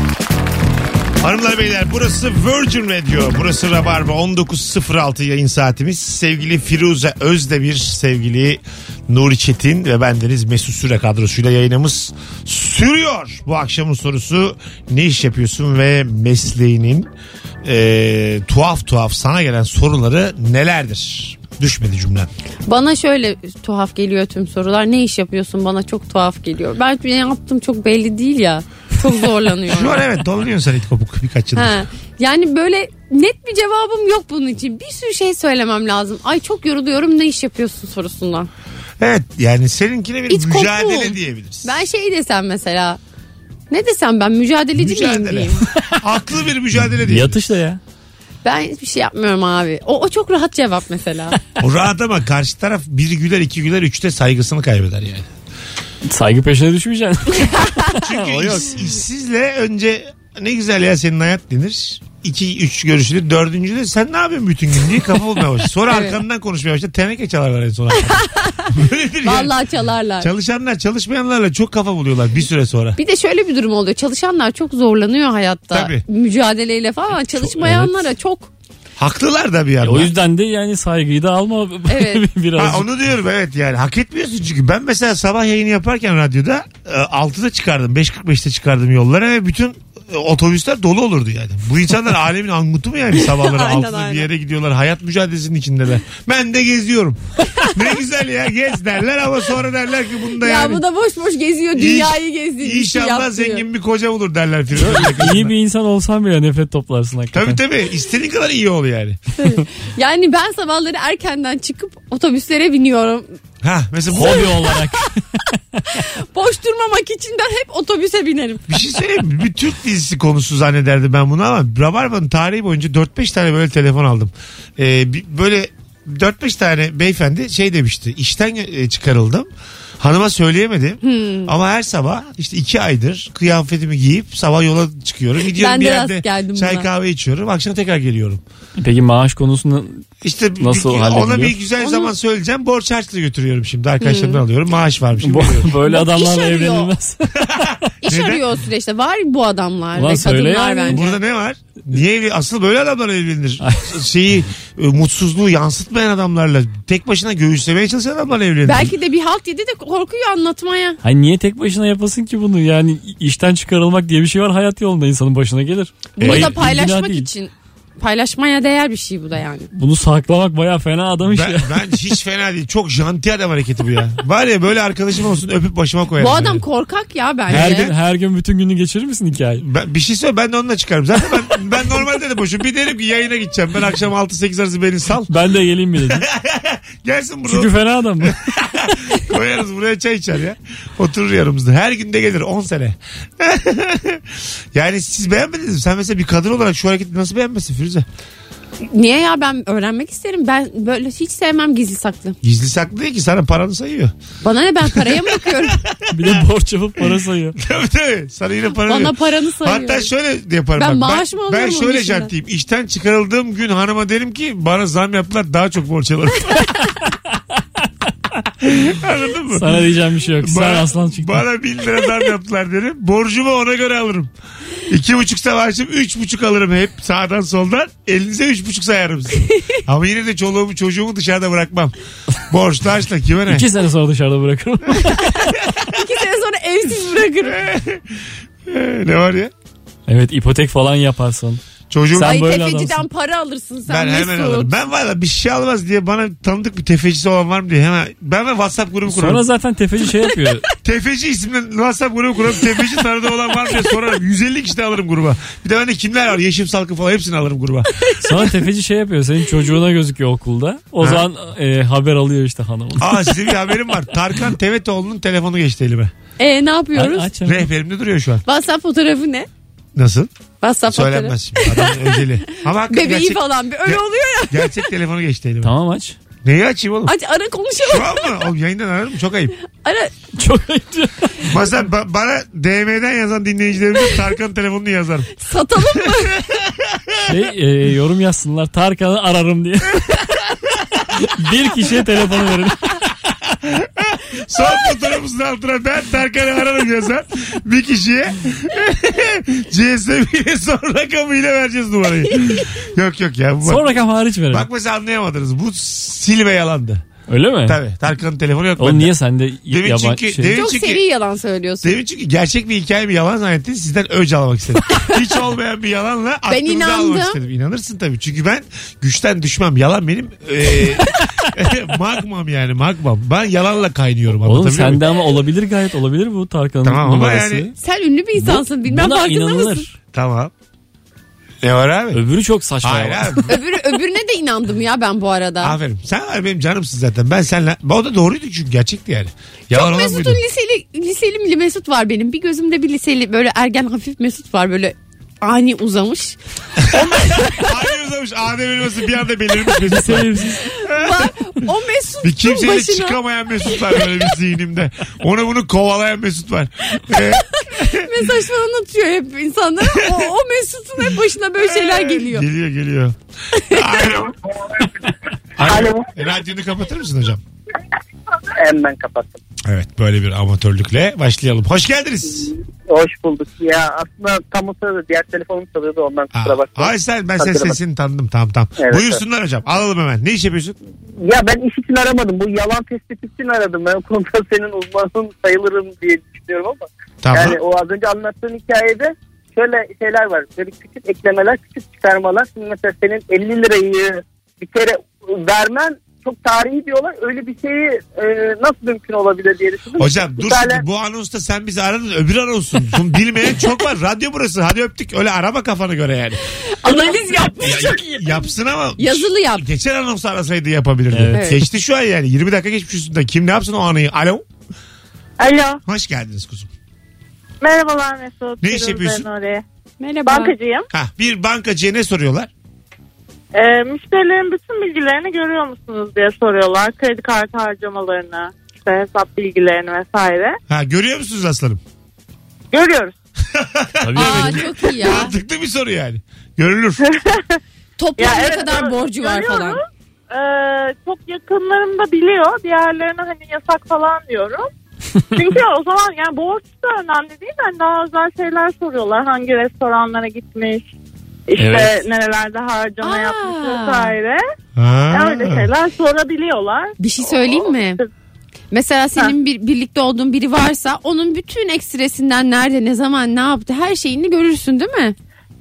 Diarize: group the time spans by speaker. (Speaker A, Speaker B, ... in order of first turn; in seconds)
Speaker A: 1.2-17.1, 17.6-22.3, 29.7-31.8, 39.0-41.7, 44.7-47.4, 51.6-55.3, 58.0-69.5, 70.2-73.0, 75.7-76.0, 79.0-80.1, 82.6-100.8, 101.7-105.5, 107.3-109.2, 113.6-114.5, 118.7-129.5, 130.0-138.4, 140.2-145.7, 148.0-148.4, 150.9-158.9, 166.2-166.6, 171.2-176.6, 177.5-177.9, 179.6-185.3, 186.0-187.7, 188.2-198.1, 202.4-204.1, 204.9-206.4, 207.6-216.7, 218.6-219.8, 220.4-224.3, 224.9-231.9, 232.5-233.7, 237.4-239.5, 241.9-242.5, 243.9-249.4, 250.8-258.1, 261.0-261.2, 263.0-266.1, 267.4-268.4, 269.9-270.3, 270.9-275.7, 276.4-277.1, 277.8-279.5, 281.4-285.3, 286.1-287.2, 293.3-304.0, 304.5-307.1, 307.6-309.1, 309.7-311.0, 311.8-325.1, 326.8-327.7, 330.1-330.5, 331.6-332.2, 332.8-333.6, 335.6-340.4, 346.9-351.3, 352.2-358.1, 359.8-360.2, 361.6-364.4, 365.6-367.4, 369.6-372.5, 376.3-380.8, 387.2-387.6, 400.0-406.4, 407.6-414.4, 415.9-416.7, 418.6-419.3, 420.9-422.5, 430.7-431.8, 433.5-437.0, 454.8-455.7
Speaker B: 22.7-30.1, 31.6-38.5, 40.3-43.0, 43.7-45.6, 48.4-51.4, 65.9-66.2, 68.0-70.3, 73.0-78.5, 81.9-82.2, 93.2-94.2, 100.4-103.6, 109.4-113.3, 114.1-115.0, 115.9-118.8, 131.0-131.5, 135.5-136.9, 141.8-142.1, 144.0-144.4, 145.7-146.9, 148.0-151.2, 158.6-161.0, 166.1-169.7, 176.2-177.9, 198.9-202.4, 204.4-205.8, 208.8-210.1, 210.8-212.3, 235.0-237.6, 242.1-244.8, 257.9-258.5, 266.4-267.3, 268.4-269.5, 270.6-274.8, 277.1-278.3, 279.7-280.1, 285.4-286.4, 310.5-311.9, 316.5-317.4, 327.8-329.8, 333.5-335.8, 339.7-347.9, 350.6-353.2, 353.7-354.2, 357.7-362.4, 363.6-363.8, 406.8-409.6, 411.3-411.6, 420.0-420.5, 434.1-435.3, 438.0-439.8, 453.0-454.1, 457.0-458.0, 458.7-465.1
Speaker C: 47.0-47.8, 56.0-58.8, 77.6-77.9, 79.8-82.8, 104.8-107.6, 114.1-115.1, 138.8-140.1, 140.6-141.6, 145.2-147.9, 149.9-151.1, 153.6-153.9, 161.0-167.3, 169.7-171.8, 177.5-179.6, 185.3-186.2, 187.5-189.0, 206.1-207.6, 219.5-221.4, 233.5-235.6, 240.1-241.6, 242.2-243.0, 249.1-250.6, 258.2-263.4, 266.9-267.7, 275.6-276.1, 280.4-281.5, 287.3-290.4, 291.1-293.0, 303.6-304.7, 307.3-307.8, 308.8-310.6, 324.4-327.7, 328.4-329.9, 332.1-333.5, 349.9-350.6, 411.1-411.4, 434.0-434.7, 451.6-452.0
Speaker D: 365.6-366.1, 368.6-369.4, 372.9-377.8, 378.8-379.2, 381.2-400.8
Speaker E: 415.4-415.8, 417.6-419.6, 420.2-420.9, 423.5-430.6, 432.7-433.1, 437.0-437.6, 438.2-444.7, 445.4-450.8, 451.5-454.4, 455.1-458.1